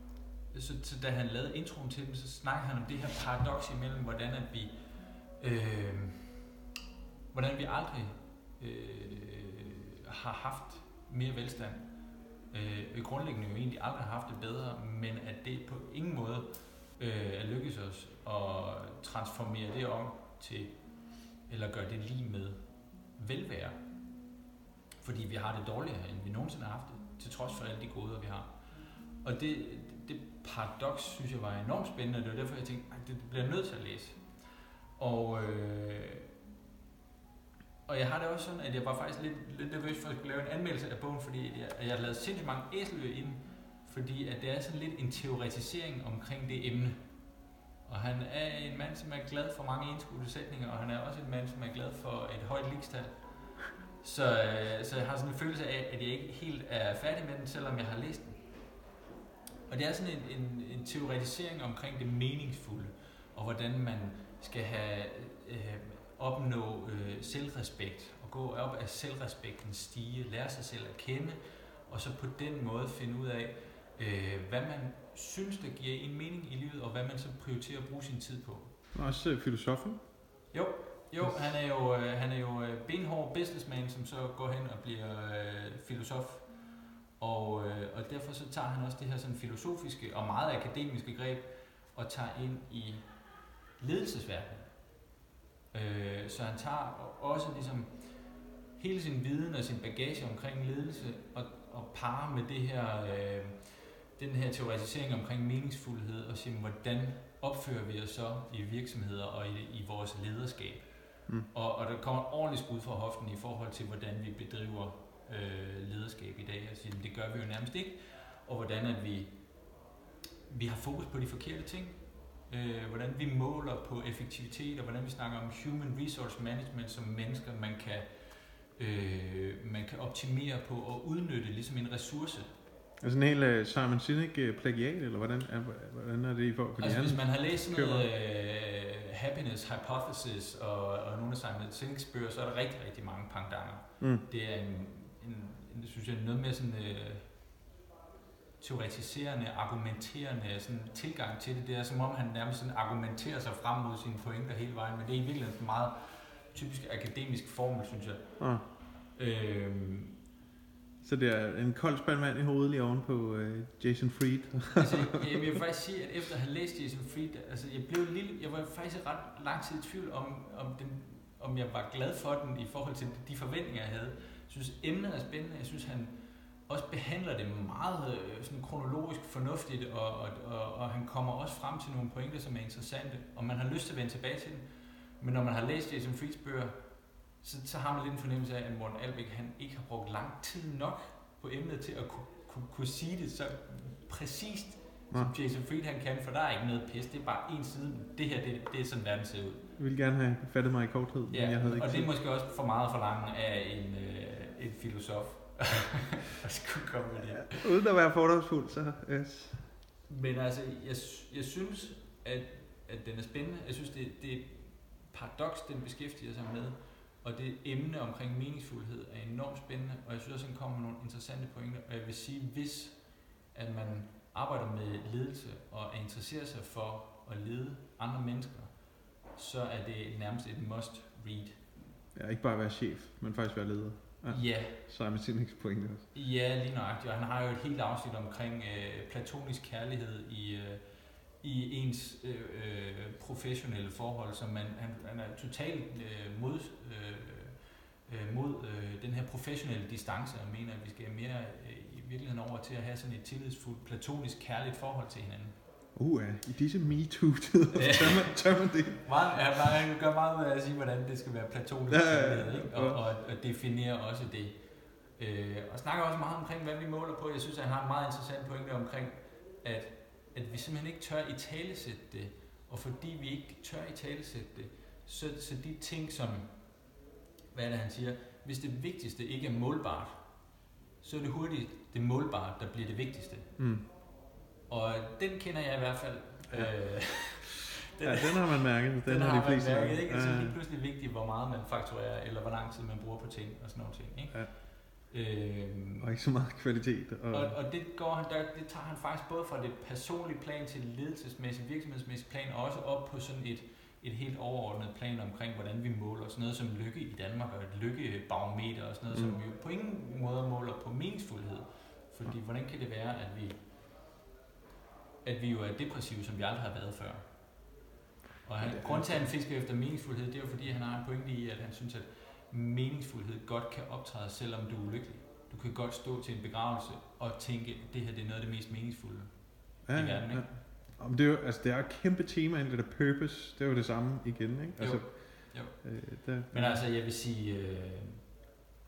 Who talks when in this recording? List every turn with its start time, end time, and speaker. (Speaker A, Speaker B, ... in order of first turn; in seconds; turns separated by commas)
Speaker A: 0.5-6.5, Speaker A: 7.3-24.2, Speaker A: 25.0-36.3, Speaker A: 37.9-58.8, Speaker A: 59.7-78.8, Speaker B: 78.9-80.0, Speaker A: 80.5-95.0, Speaker A: 95.7-120.0, Speaker A: 120.5-132.5, Speaker B: 133.0-138.1, Speaker A: 136.8-147.3, Speaker B: 144.0-144.2, Speaker A: 148.6-160.2, Speaker B: 158.4-158.6, Speaker B: 161.0-165.4, Speaker A: 164.8-199.8, Speaker B: 195.1-195.4, Speaker B: 199.8-202.1, Speaker A: 201.3-207.7, Speaker B: 207.4-209.8, Speaker A: 210.1-231.8, Speaker B: 232.1-236.1, Speaker A: 234.3-234.9, Speaker A: 236.1-255.6, Speaker B: 255.9-259.1, Speaker A: 257.7-277.0, Speaker B: 261.9-263.0, Speaker A: 277.5-283.6, Speaker B: 283.6-283.9, Speaker A: 284.7-296.1, Speaker B: 288.0-290.6, Speaker B: 296.0-297.6, Speaker A: 297.3-313.6, Speaker B: 309.1-309.4, Speaker A: 315.2-317.8, Speaker A: 318.4-330.6, Speaker B: 318.6-319.3, Speaker B: 329.8-336.8, Speaker A: 334.8-338.5